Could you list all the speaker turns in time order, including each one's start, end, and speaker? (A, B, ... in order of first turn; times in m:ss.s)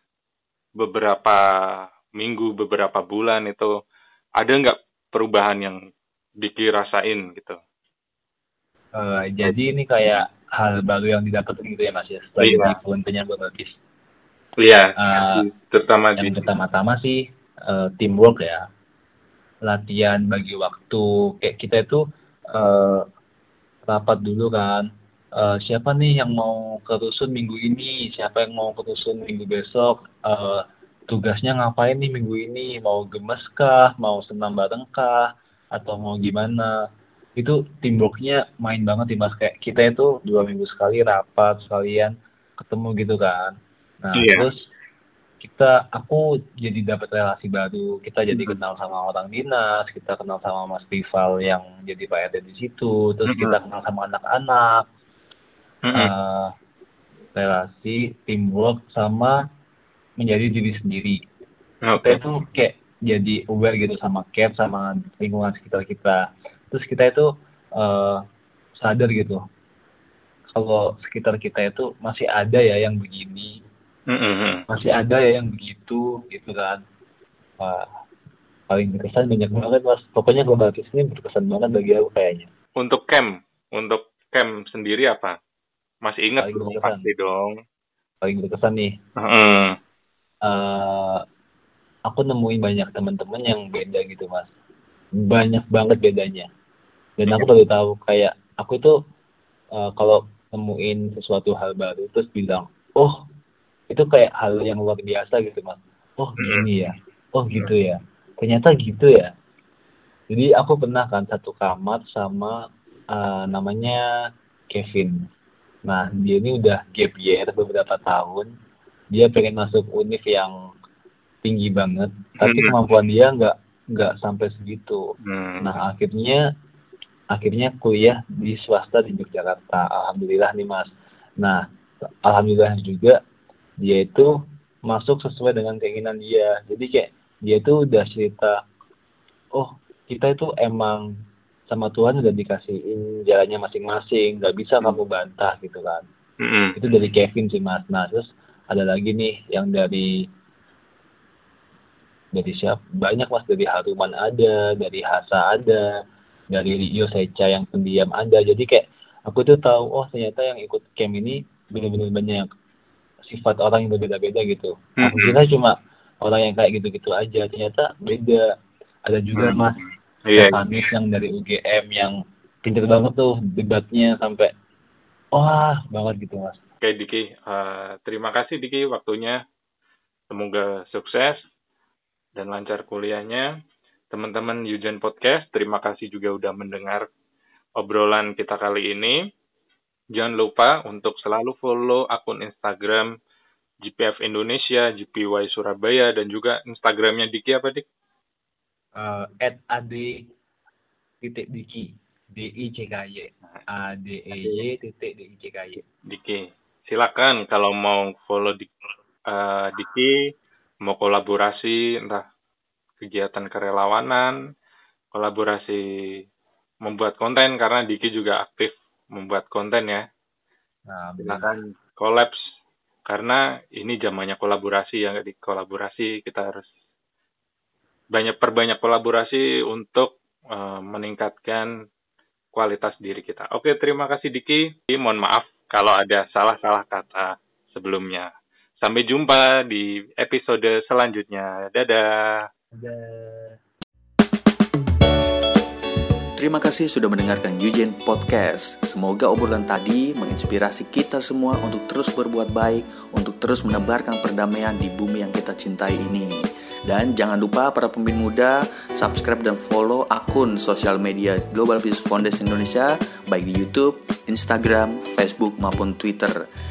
0:00.8-0:01.4 A
0:02.2-0:03.7 A
0:04.4-0:05.8 A
0:06.4-0:07.6 A
0:09.0-0:13.7 B
0:12.4-0:12.7 A
0:14.6-0:16.4 A
0:15.0-0:15.5 B
0:16.2-0:18.6 B
0:19.6-0:22.0 B
0:22.5-0:23.0 B
0:23.9-0:36.8 B
0:37.4-0:44.6 B
0:44.1-0:44.5 A
0:45.4-0:54.8 B
0:53.3-0:53.6 A
0:55.8-0:56.1 A
0:55.9-0:56.5 B
0:57.4-0:59.4 B
1:00.2-1:01.2 B
1:01.8-1:02.2 A
1:02.0-1:08.2 B
1:08.8-1:09.4 B
1:10.5-1:13.5 B
1:14.1-1:14.6 A
1:14.7-1:16.8 B
1:17.6-1:17.8 B
1:18.7-1:22.5 B
1:22.8-1:25.4 A
1:26.0-1:27.6 A
1:26.4-1:27.1 B
1:28.2-1:28.9 B
1:29.2-1:29.8 A
1:30.4-1:31.2 B
1:32.1-1:34.5 B
1:35.2-1:36.5 B
1:37.2-1:38.9 B
1:39.8-1:43.2 B
1:43.9-1:49.3 B
1:46.4-1:46.7 A
1:50.3-1:52.6 B
1:53.1-1:54.0 B
1:54.7-1:55.2 B
1:55.9-1:58.5 B
1:59.1-2:00.5 B
2:01.4-2:05.0 B
2:02.4-2:02.7 A
2:05.2-2:05.8 A
2:05.6-2:06.4 B
2:07.3-2:11.6 B
2:12.2-2:13.2 B
2:13.8-2:14.3 B
2:14.9-2:18.6 B
2:19.5-2:21.1 B
2:21.7-2:26.0 B
2:26.4-2:26.8 A
2:26.8-2:30.1 B
2:32.3-2:35.9 B
2:36.5-2:42.5 B
2:43.3-2:48.4 B
2:45.0-2:45.4 A
2:49.1-2:49.8 B
2:49.4-2:50.6 A
2:50.4-2:54.5 B
2:55.4-2:56.6 B
2:56.8-2:59.4 A
3:00.3-3:01.4 A
3:02.4-3:03.5 A
3:04.1-3:07.0 A
3:07.8-3:09.2 A
3:10.1-3:13.1 A
3:13.8-3:17.8 A
3:19.0-3:20.2 B
3:21.2-3:25.8 B
3:26.1-3:28.7 A
3:29.3-3:30.2 A
3:30.8-3:32.2 A
3:33.0-3:34.4 A
3:35.1-3:35.8 A
3:36.8-3:40.0 A
3:40.9-3:41.5 B
3:41.2-3:42.4 A
3:43.1-3:46.7 A
3:48.1-3:51.7 A
3:52.5-3:58.3 A
3:58.8-4:02.4 A
4:02.7-4:03.6 B
4:06.4-4:16.3 C
4:16.9-4:26.4 C